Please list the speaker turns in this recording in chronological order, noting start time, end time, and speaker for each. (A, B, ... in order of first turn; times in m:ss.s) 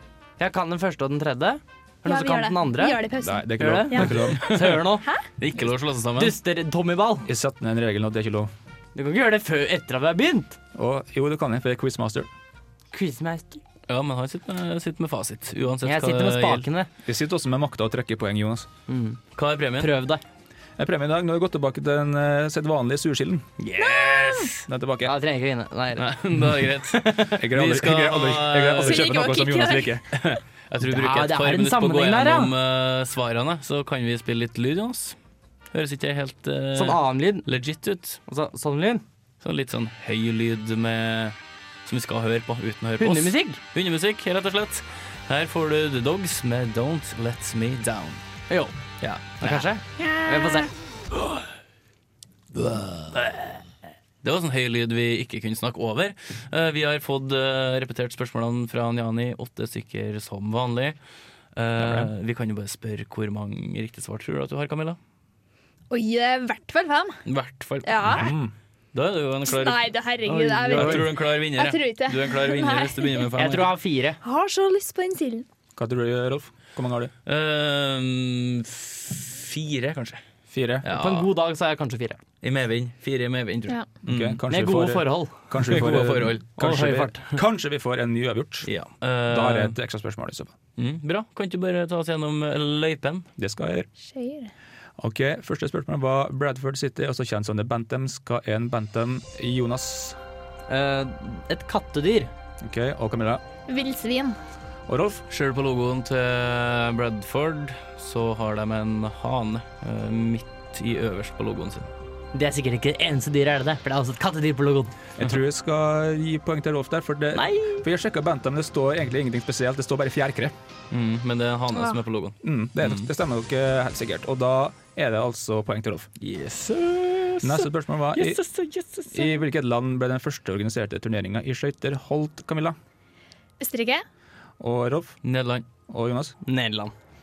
0:00.4-0:03.0 A
0:02.0-0:05.2 B
0:03.2-0:04.6 C
0:03.5-0:05.0 A
0:05.4-0:06.3 D
0:06.2-0:07.3 A
0:07.2-0:08.5 C
0:08.9-0:10.6 A
0:10.7-0:12.3 C
0:12.9-0:13.6 A
0:13.9-0:16.6 D
0:15.8-0:16.9 A
0:17.0-0:18.7 C
0:18.9-0:19.2 A
0:19.4-0:19.9 D
0:19.8-0:20.2 A
0:20.8-0:23.5 C
0:23.6-0:24.6 D
0:23.8-0:24.1 A
0:24.7-0:25.1 C
0:25.0-0:26.1 A
0:26.0-0:29.1 D
0:27.4-0:30.0 C
0:28.8-0:30.0 B
0:30.1-0:35.2 D
0:30.8-0:32.5 A
0:35.7-0:38.2 D
0:36.7-0:37.4 A
0:38.3-0:39.0 A
0:39.4-0:48.2 D
0:43.0-0:43.6 A
0:49.0-0:49.6 D
0:49.4-0:50.7 A
0:52.5-0:53.6 D
0:54.2-1:01.0 D
1:01.5-1:05.0 D
1:01.8-1:02.1 C
1:05.9-1:07.2 B
1:07.2-1:08.3 D
1:07.8-1:08.3 B
1:08.1-1:08.5 C
1:08.9-1:13.7 D
1:09.5-1:13.3 B
1:10.5-1:11.0 A
1:13.4-1:14.2 A
1:14.2-1:15.4 B
1:15.8-1:17.1 C
1:17.2-1:20.2 D
1:20.5-1:20.8 C
1:20.8-1:21.3 D
1:20.9-1:22.2 A
1:22.4-1:24.4 D
1:24.0-1:28.7 C
1:24.5-1:25.8 A
1:25.6-1:26.4 D
1:26.6-1:27.4 A
1:28.6-1:29.7 D
1:29.2-1:30.5 C
1:30.8-1:33.2 D
1:33.4-1:33.9 C
1:34.0-1:34.5 B
1:35.0-1:40.2 C
1:40.7-1:42.3 A
1:42.6-1:43.4 C
1:43.7-1:44.4 B
1:44.9-1:45.2 C
1:45.3-1:51.9 D
1:52.3-1:54.9 A
1:55.2-2:00.5 C
1:57.3-1:57.8 A
2:00.9-2:03.1 D
2:02.4-2:06.1 C
2:06.2-2:09.1 D
2:07.4-2:08.4 C
2:09.1-2:12.8 C
2:13.6-2:14.0 B
2:14.6-2:15.2 C
2:15.2-2:15.6 D
2:15.9-2:16.4 C
2:16.4-2:16.9 A